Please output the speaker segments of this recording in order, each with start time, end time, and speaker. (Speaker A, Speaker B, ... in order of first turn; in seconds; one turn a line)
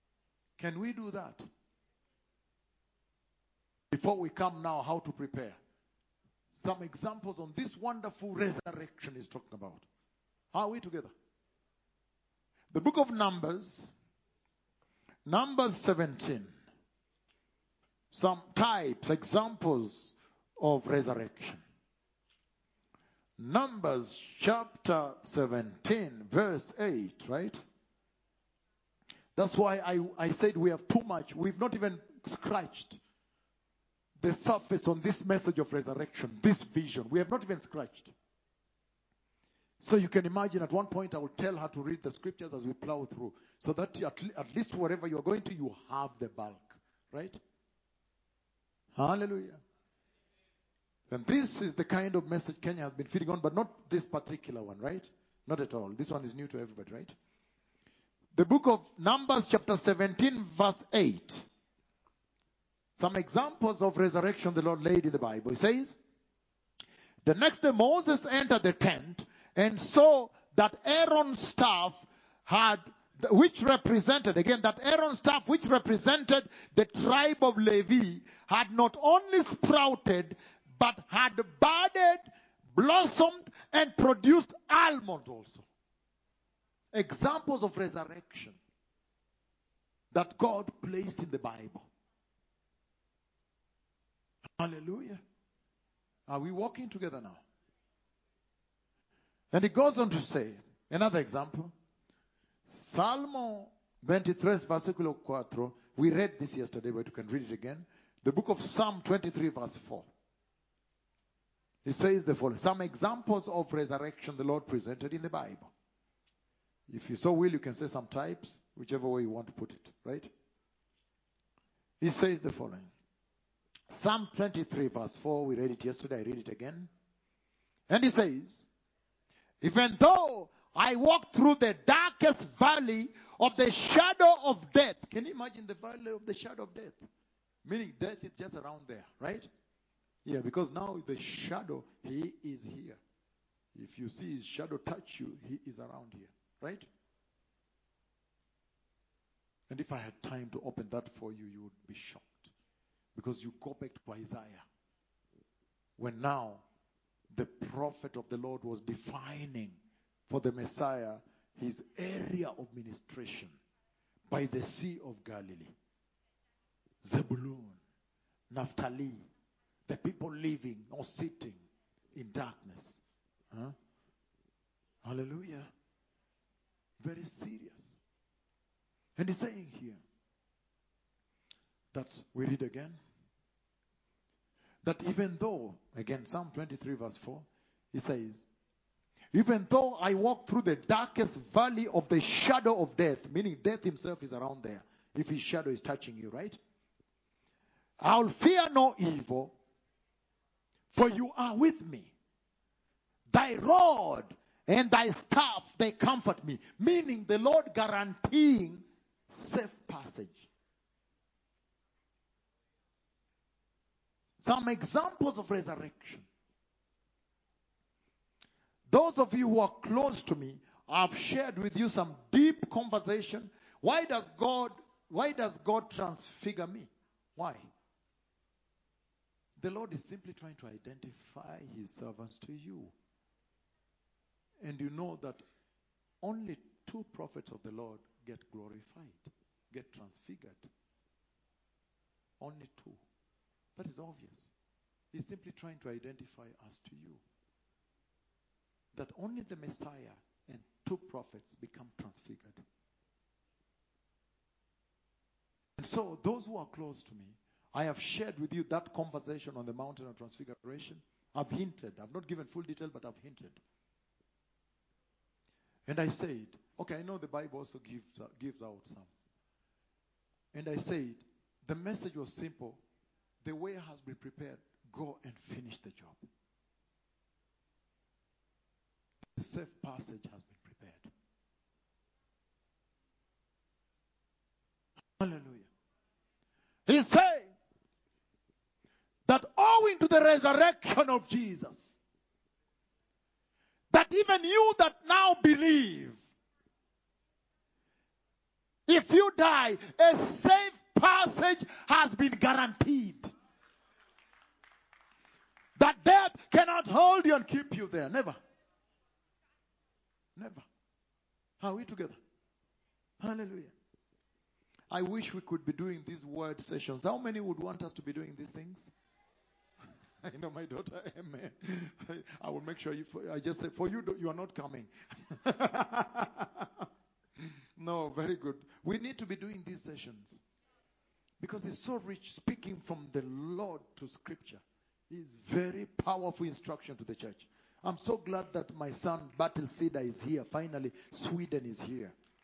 Speaker A: 0.6-1.4
Speaker A: 3.9-5.6
Speaker A: 6.5-9.8
Speaker A: 10.5-11.1
Speaker A: 12.7-13.9
Speaker A: 15.3-16.5
Speaker A: 18.1-21.6
Speaker A: 23.4-27.6
Speaker A: 29.4-33.0
Speaker A: 34.2-38.1
Speaker A: 39.8-47.4
Speaker A: 48.9-49.6
Speaker A: 51.1-57.1
Speaker A: 58.3-61.5
Speaker A: 63.0-66.0
Speaker A: 67.2-85.7
Speaker A: 86.9-88.6
Speaker A: 90.1-91.9
Speaker A: 94.6-95.2
Speaker A: 96.3-97.4
Speaker A: 99.5-101.7
Speaker A: 102.7-110.1
Speaker A: 111.8-115.7
Speaker A: 116.9-120.3
Speaker A: 122.0-122.9
Speaker A: 123.9-126.9
Speaker A: 127.9-128.7
Speaker A: 129.6-137.1
Speaker A: 137.6-139.5
Speaker A: 140.2-143.0
Speaker A: 143.7-146.8
Speaker A: 149.7-152.5
Speaker A: 153.1-154.6
Speaker A: 156.0-156.6
Speaker A: 157.3-159.8
Speaker A: 160.3-163.6
Speaker A: 164.3-165.7
Speaker A: 167.0-167.8
Speaker A: 168.5-169.2
Speaker A: 169.8-171.6
Speaker A: 172.1-173.7
Speaker A: 175.0-175.7
Speaker A: 177.0-178.0
Speaker A: 179.2-180.0
Speaker A: 181.9-183.0
Speaker A: 184.8-188.5
Speaker A: 189.3-196.6
Speaker A: 198.0-199.5
Speaker A: 200.9-202.1
Speaker A: 203.3-210.5
Speaker A: 214.4-216.3
Speaker A: 218.9-227.6
Speaker A: 229.6-232.9
Speaker A: 234.6-235.4
Speaker A: 236.2-240.7
Speaker A: 242.4-243.0
Speaker A: 243.8-244.5
Speaker A: 245.1-247.2
Speaker A: 248.9-252.6
Speaker A: 255.8-263.6
Speaker A: 265.9-269.1
Speaker A: 270.5-272.8
Speaker A: 273.4-276.2
Speaker A: 279.4-281.1
Speaker A: 285.2-285.7
Speaker A: 286.9-287.5
Speaker A: 289.3-292.0
Speaker A: 293.9-296.2
Speaker A: 298.9-303.3
Speaker A: 305.8-308.4
Speaker A: 310.4-310.6
Speaker A: 311.6-312.2
Speaker A: 313.2-313.7
Speaker A: 314.9-318.9
Speaker A: 320.2-326.8
Speaker A: 327.8-330.4
Speaker A: 331.4-342.1